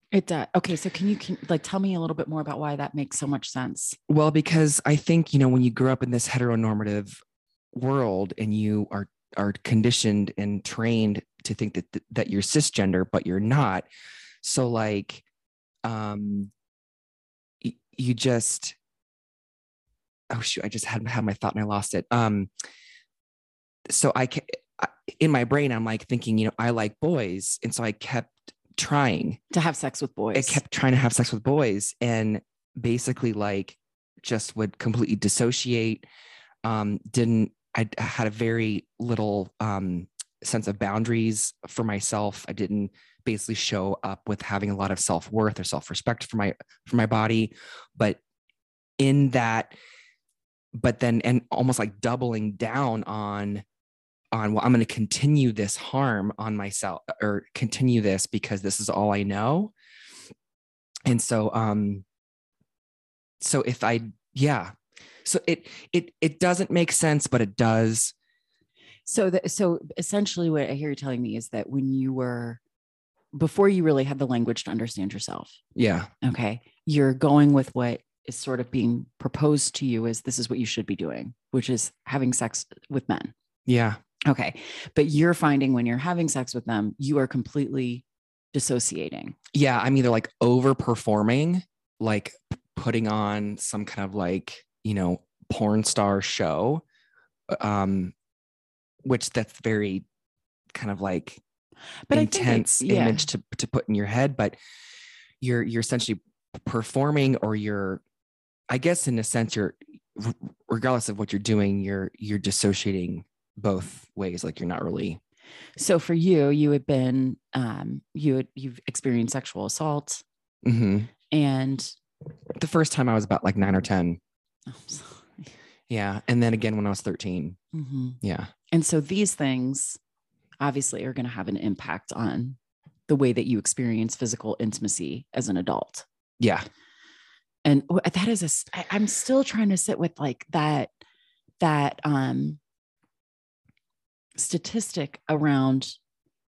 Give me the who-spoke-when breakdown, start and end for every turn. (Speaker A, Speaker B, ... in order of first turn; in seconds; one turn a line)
Speaker A: 0.1-4.0
Speaker B: 4.1-7.2
Speaker B: 7.7-13.9
Speaker B: 14.4-15.2
Speaker B: 15.8-16.5
Speaker B: 17.6-18.8
Speaker B: 20.3-22.5
Speaker B: 23.9-29.4
Speaker A: 29.5-30.6
Speaker B: 30.3-36.0
Speaker B: 36.6-48.2
Speaker B: 49.0-49.7
Speaker B: 50.8-53.6
Speaker B: 54.3-59.7
Speaker B: 61.0-62.0
Speaker B: 63.4-64.7
Speaker B: 65.2-68.1
Speaker A: 69.0-72.6
Speaker A: 73.3-75.6
Speaker B: 75.8-76.1
Speaker A: 76.2-83.3
Speaker B: 83.7-84.0
Speaker A: 84.2-89.4
Speaker B: 89.5-96.8
Speaker B: 97.5-98.1
Speaker B: 99.0-100.0
Speaker B: 100.7-101.4
Speaker A: 102.1-103.2
Speaker B: 102.1-104.6
Speaker B: 105.4-108.0
Speaker B: 108.7-115.2
Speaker A: 115.8-120.2
Speaker B: 120.6-121.1
Speaker A: 121.3-122.0
Speaker B: 122.6-124.2
Speaker A: 124.7-125.5
Speaker B: 125.9-127.6
Speaker A: 127.7-130.0
Speaker B: 128.2-128.5
Speaker A: 130.6-136.1
Speaker B: 136.4-136.7
Speaker A: 137.6-140.9
Speaker A: 141.6-142.6
Speaker A: 144.4-145.9